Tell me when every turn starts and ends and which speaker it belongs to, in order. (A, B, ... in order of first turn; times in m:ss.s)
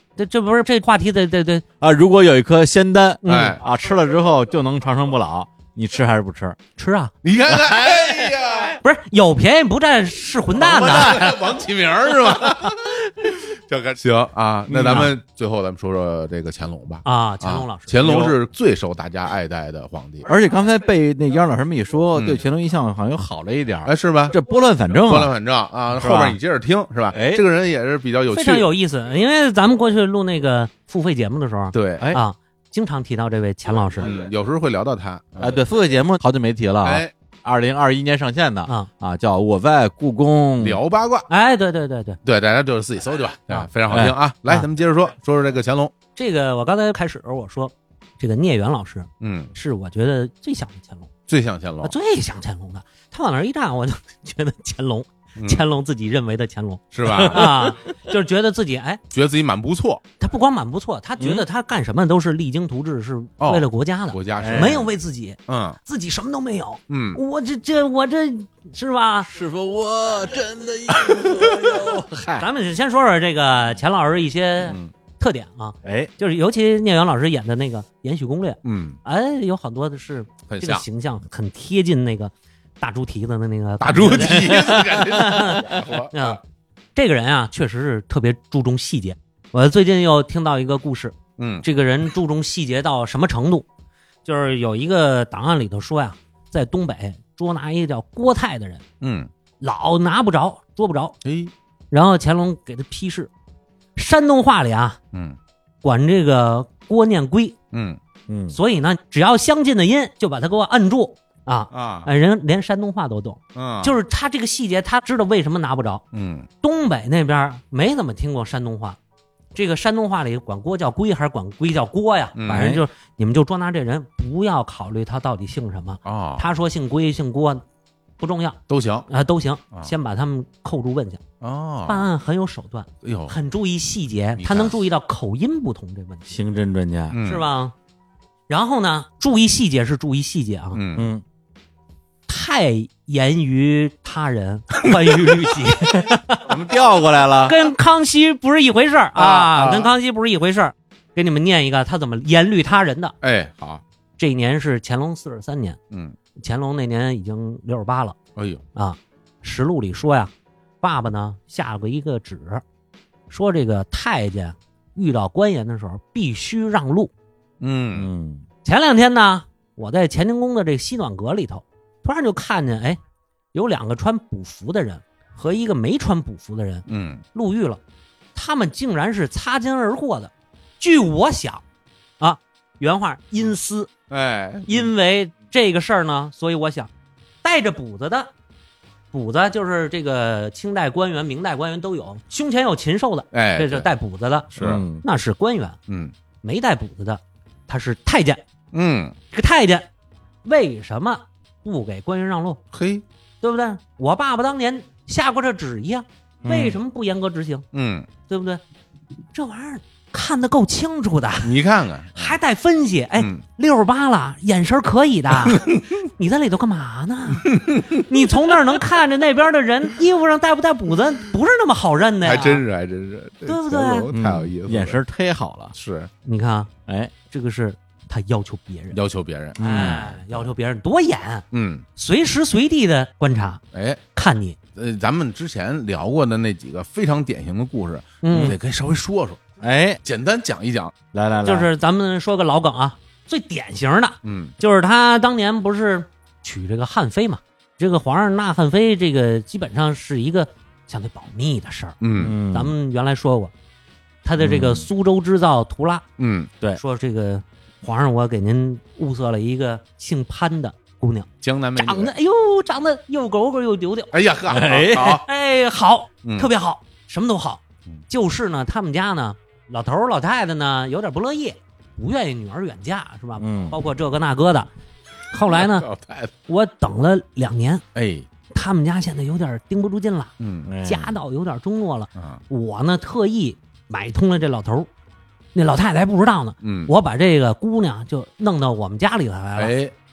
0:00.2-0:01.6 A
0:01.8-0:06.6 B
0:03.2-0:03.6 A
0:03.2-0:03.6 C
0:06.8-0:07.1 A
0:07.2-0:08.8 C
0:07.5-0:08.3 B
0:08.8-0:11.4 A
0:10.5-0:20.3 C
0:14.7-0:15.1 B
0:17.0-0:18.0 A
0:18.0-0:18.4 B
0:20.3-0:25.3 B
0:22.1-0:22.4 C
0:23.8-0:24.4 C
0:25.1-0:28.7 C
0:25.9-0:26.4 B
0:27.1-0:27.4 B
0:28.3-0:34.1 A
0:31.7-0:32.1 C
0:34.0-0:35.6 C
0:35.4-0:40.8 B
0:36.8-0:37.1 C
0:40.6-0:41.3 C
0:41.3-0:42.2 A
0:42.2-0:45.9 C
0:43.9-0:44.6 B
0:46.2-0:51.1 A
0:49.2-0:49.5 C
0:51.3-0:52.0 C
0:51.8-0:59.0 A
0:55.4-0:55.6 C
0:56.9-0:57.6 C
0:57.2-0:57.6 B
0:59.1-1:00.0 C
1:00.2-1:09.3 A
1:01.2-1:01.4 B
1:03.4-1:04.9 C
1:04.4-1:04.8 B
1:05.5-1:05.8 C
1:06.9-1:07.2 C
1:09.3-1:12.5 B
1:11.1-1:11.7 C
1:12.4-1:26.4 A
1:14.6-1:14.9 C
1:15.8-1:16.1 B
1:18.6-1:19.0 C
1:20.5-1:20.8 C
1:23.8-1:26.4 C
1:27.0-1:33.7 A
1:31.4-1:31.7 C
1:34.2-1:38.8 A
1:39.0-1:39.3 C
1:39.6-1:41.2 A
1:41.2-1:41.5 C
1:41.9-1:43.3 A
1:44.0-1:45.0 A
1:45.1-1:45.4 C
1:45.8-1:47.6 A
1:47.7-1:48.0 C
1:48.3-1:48.6 B
1:48.5-1:56.0 A
1:51.7-1:52.1 C
1:53.6-1:54.0 C
1:56.1-1:56.5 C
1:56.6-1:59.0 A
1:59.6-2:07.6 A
2:02.4-2:02.8 C
2:02.5-2:02.8 B
2:06.0-2:06.5 C
2:08.2-2:11.2 A
2:08.7-2:09.1 C
2:11.4-2:12.1 C
2:11.9-2:16.4 A
2:13.0-2:13.4 C
2:14.4-2:14.8 C
2:16.3-2:17.2 B
2:17.1-2:17.5 C
2:17.2-2:17.7 A
2:18.5-2:20.8 A
2:20.7-2:21.1 C
2:21.0-2:21.2 B
2:22.3-2:26.6 A
2:26.5-2:27.6 B
2:27.4-2:33.2 A
2:29.4-2:29.8 C
2:33.2-2:33.8 C
2:34.2-2:35.8 A
2:35.9-2:36.2 C
2:36.4-2:38.2 A
2:38.4-2:38.6 C
2:38.8-2:42.6 A
2:43.3-2:47.1 A
2:47.6-2:48.1 C
2:48.0-2:48.4 B
2:48.6-2:53.0 A
2:53.5-2:57.8 A
2:56.9-2:57.2 C
2:58.4-3:01.6 A
3:02.2-3:03.9 A
3:04.1-3:04.9 C
3:04.7-3:06.9 A
3:07.4-3:08.3 A
3:09.1-3:15.8 A
3:13.3-3:13.9 C
3:14.6-3:14.8 C
3:14.6-3:15.0 B
3:15.9-3:16.1 C
3:16.4-3:18.4 A
3:18.7-3:19.2 C
3:19.3-3:19.9 A
3:20.4-3:22.6 A
3:22.7-3:23.0 C
3:23.4-3:27.6 A
3:26.4-3:26.8 B
3:27.7-3:28.1 C
3:28.3-3:28.6 A
3:29.3-3:31.6 A
3:31.4-3:32.4 C
3:32.2-3:42.6 A
3:33.2-3:33.4 C
3:35.4-3:35.8 C
3:37.5-3:38.0 C
3:42.2-3:45.0 C
3:43.5-3:44.1 A
3:44.1-3:45.8 B
3:45.7-3:46.1 C
3:46.2-3:46.7 A
3:46.9-3:47.1 B
3:47.3-3:49.0 A
3:48.9-3:50.4 C
3:49.6-3:50.1 B
3:49.6-3:51.4 A
3:51.5-3:51.8 C
3:52.0-3:53.6 A
3:53.7-3:54.0 C
3:54.2-3:54.6 A
3:54.8-3:59.4 C
3:58.2-3:58.6 A
3:59.6-4:00.0 B
4:00.0-4:01.0 C
4:01.1-4:01.7 B
4:01.4-4:13.5 A
4:04.2-4:04.6 C
4:12.0-4:12.4 C
4:12.2-4:12.7 B
4:14.2-4:16.0 A
4:14.4-4:14.9 B
4:16.2-4:16.5 C
4:16.8-4:24.1 A
4:21.4-4:22.1 C
4:24.1-4:25.3 C
4:24.5-4:25.2 B
4:25.3-4:34.7 A
4:26.2-4:26.5 C
4:33.4-4:33.8 B
4:35.3-4:35.9 A
4:35.5-4:36.3 C
4:36.5-4:37.8 A
4:37.9-4:38.3 C
4:38.5-4:40.3 A
4:40.4-4:40.7 C
4:40.7-4:41.2 B
4:40.8-4:44.9 A
4:42.2-4:42.4 C
4:45.6-4:49.7 A
4:46.6-4:46.9 C
4:49.6-4:49.9 C